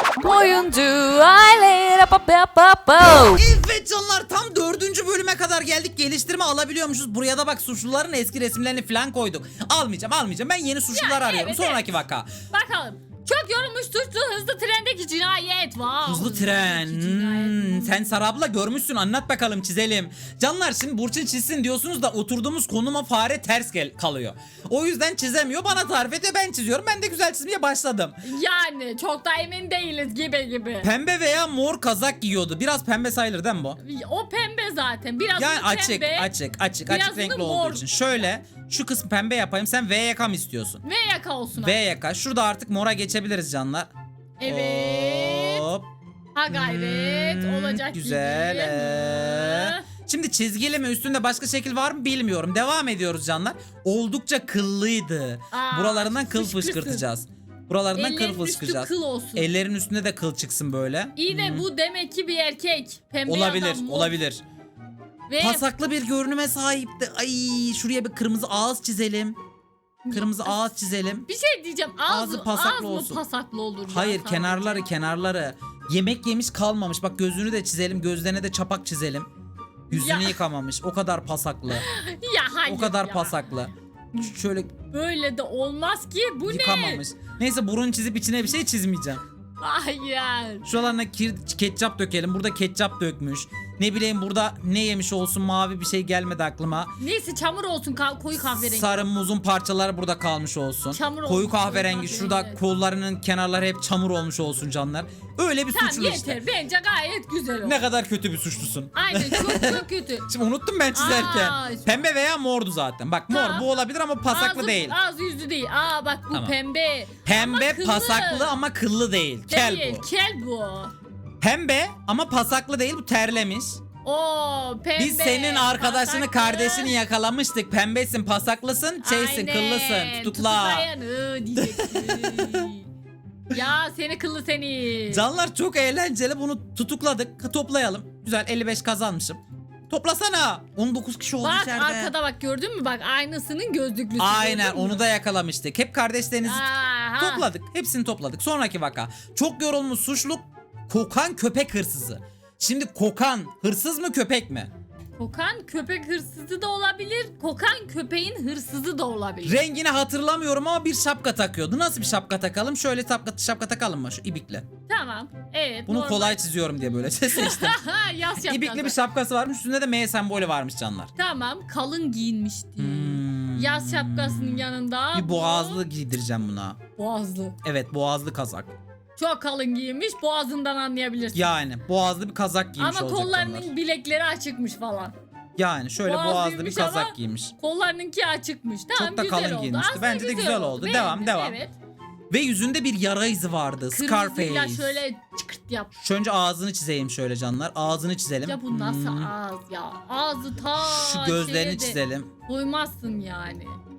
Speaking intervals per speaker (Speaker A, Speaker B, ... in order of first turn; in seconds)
Speaker A: 0.2-3.4
Speaker B: 3.3-12.3, 16.1-28.2, 30.8-33.8, 35.4-40.8, 41.6-43.9, 44.4-45.9, 46.5-61.7, 63.3-64.4, 65.4-69.4, 70.1-71.3, 72.1-73.2, 73.9-79.3, 79.9-81.9, 82.7-84.8, 86.5-89.2, 90.6-96.9, 98.4-106.4, 107.6-115.0, 117.2-120.0, 121.4-123.8, 125.0-130.9, 131.6-132.7, 135.1-142.1, 144.2-146.7, 147.2-154.7, 159.4-164.7, 165.9-167.8, 168.4-171.1, 172.8-176.8, 177.6-178.7, 181.3-183.7, 185.6-187.5, 189.0-191.6, 192.3-195.0, 196.0-199.3, 200.8-202.3
Speaker C: 10.9-11.9, 12.5-18.1, 28.2-30.9, 33.8-36.3, 36.9-37.9, 40.8-41.8, 44.4-45.7, 46.4-49.9, 55.5-57.0, 57.9-59.5, 61.2-64.1, 65.3-65.7, 70.0-70.7, 71.3-74.8, 79.9-80.4, 81.7-83.5, 84.9-87.0, 89.6-90.7, 97.0-99.1, 100.9-102.6, 105.7-107.8, 109.0-110.3, 110.9-111.9, 113.3-113.7, 114.3-118.5, 119.5-120.9, 124.0-126.9, 129.0-132.9, 133.5-135.2, 141.4-145.1, 146.4-147.5, 155.2-159.6, 164.9-166.4, 167.1-169.0, 171.2-175.8, 177.0-177.6, 179.2-181.5, 182.8-185.1, 186.1-191.8, 193.9-195.9, 198.4-203.8